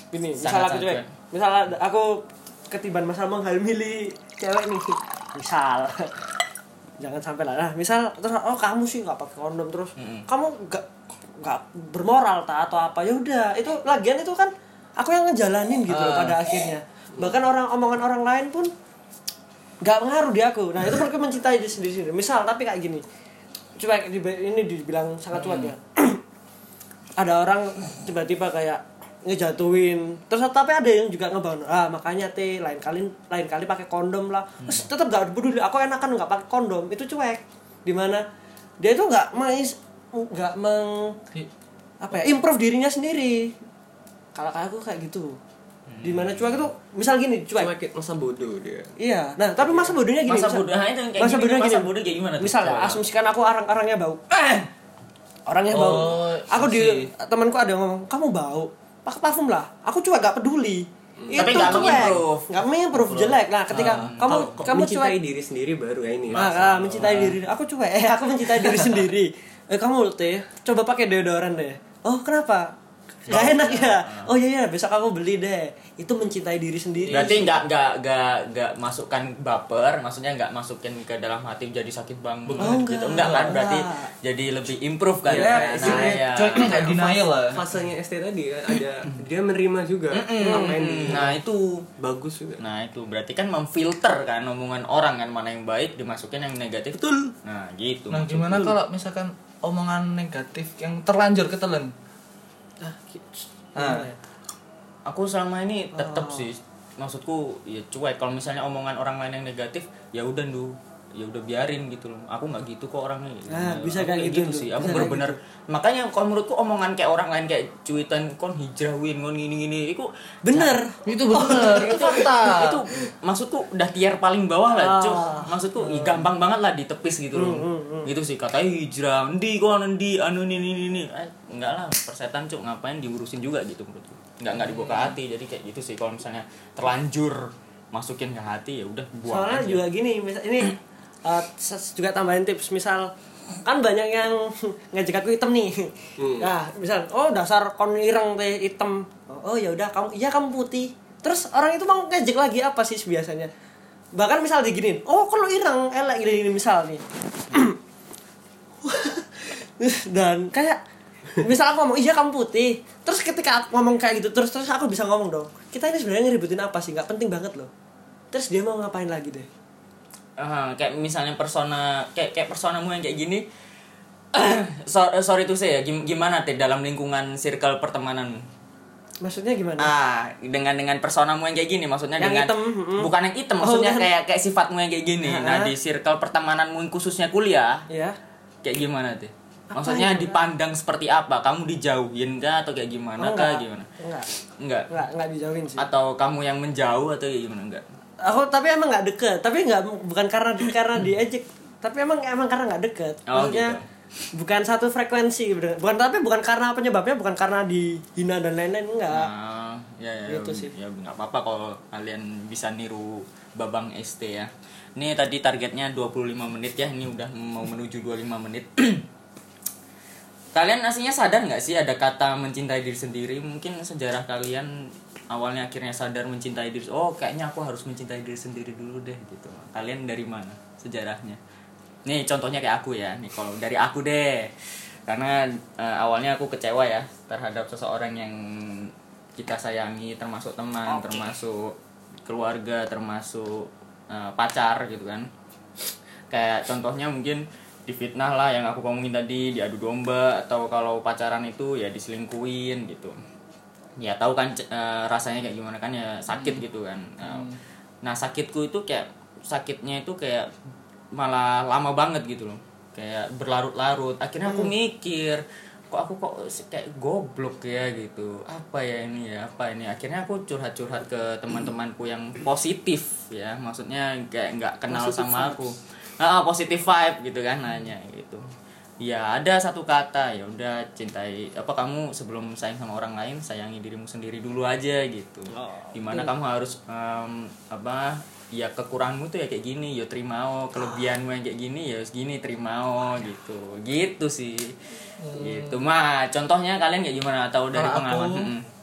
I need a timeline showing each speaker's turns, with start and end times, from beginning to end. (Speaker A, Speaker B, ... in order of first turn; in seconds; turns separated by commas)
Speaker A: 0.1-6.2, Speaker B: 0.4-1.1, Speaker A: 7.0-10.8, Speaker B: 10.0-10.2, Speaker A: 11.4-18.7, Speaker C: 15.9-16.4, Speaker A: 19.8-23.0, Speaker A: 23.8-26.2, Speaker B: 25.3-25.7, Speaker A: 27.2-38.2, Speaker B: 34.6-34.9, Speaker A: 38.8-41.2, Speaker A: 42.0-43.5, Speaker A: 44.3-45.4, Speaker B: 45.9-46.6, Speaker A: 46.0-47.7, Speaker D: 47.6-48.9, Speaker A: 49.0-50.6, Speaker D: 49.6-49.9, Speaker B: 50.2-53.0, Speaker A: 51.2-54.6, Speaker A: 55.5-65.2, Speaker C: 55.7-57.1, Speaker D: 61.2-61.9, Speaker B: 61.4-62.5, Speaker C: 62.9-63.9, Speaker B: 63.7-64.6, Speaker D: 64.2-66.5, Speaker B: 66.3-67.4, Speaker A: 66.3-72.7, Speaker B: 73.2-74.3, Speaker A: 73.2-77.6, Speaker D: 77.1-77.6, Speaker B: 77.1-86.8, Speaker C: 82.5-82.8, Speaker A: 82.6-84.1, Speaker D: 85.2-91.4, Speaker A: 85.3-86.0, Speaker C: 85.8-87.6, Speaker B: 90.1-91.9, Speaker A: 90.4-90.8, Speaker D: 92.0-92.6, Speaker B: 92.6-98.8, Speaker A: 97.0-97.3, Speaker C: 98.1-101.9, Speaker A: 102.8-104.2, Speaker C: 103.8-104.1, Speaker B: 105.0-120.7, Speaker A: 105.9-106.5, Speaker A: 113.5-115.4, Speaker A: 120.5-122.1, Speaker C: 121.0-122.8, Speaker B: 121.5-139.8, Speaker A: 124.7-126.2, Speaker A: 127.3-128.1, Speaker C: 134.6-135.2, Speaker A: 139.2-143.1, Speaker A: 143.6-153.5, Speaker D: 146.2-146.5, Speaker A: 154.1-157.8, Speaker A: 158.8-160.8, Speaker A: 161.4-167.7, Speaker A: 168.3-169.5, Speaker B: 170.4-173.4, Speaker B: 174.3-178.4, Speaker A: 179.2-179.9, Speaker B: 179.8-187.8, Speaker A: 182.2-183.1, Speaker A: 183.6-184.1, Speaker A: 185.2-185.7, Speaker A: 187.9-188.2, Speaker B: 188.6-193.9, Speaker A: 189.7-190.4, Speaker A: 193.2-194.3, Speaker B: 194.6-194.9, Speaker A: 194.9-195.8, Speaker B: 195.8-197.8, Speaker A: 198.2-203.8, Speaker B: 203.3-203.8, Speaker A: 204.3-209.3, Speaker B: 209.1-219.0, Speaker A: 210.3-210.7, Speaker B: 220.5-224.7, Speaker B: 225.3-231.4, Speaker B: 232.0-241.7, Speaker A: 240.9-241.3, Speaker B: 242.2-245.3, Speaker B: 246.3-253.2, Speaker B: 254.0-257.5, Speaker C: 257.2-257.6, Speaker B: 258.0-260.5, Speaker B: 261.1-278.4, Speaker A: 264.4-264.7, Speaker A: 274.9-275.6, Speaker B: 279.0-294.7, Speaker A: 285.5-286.3, Speaker C: 295.2-295.8, Speaker B: 295.3-298.6, Speaker C: 297.7-298.5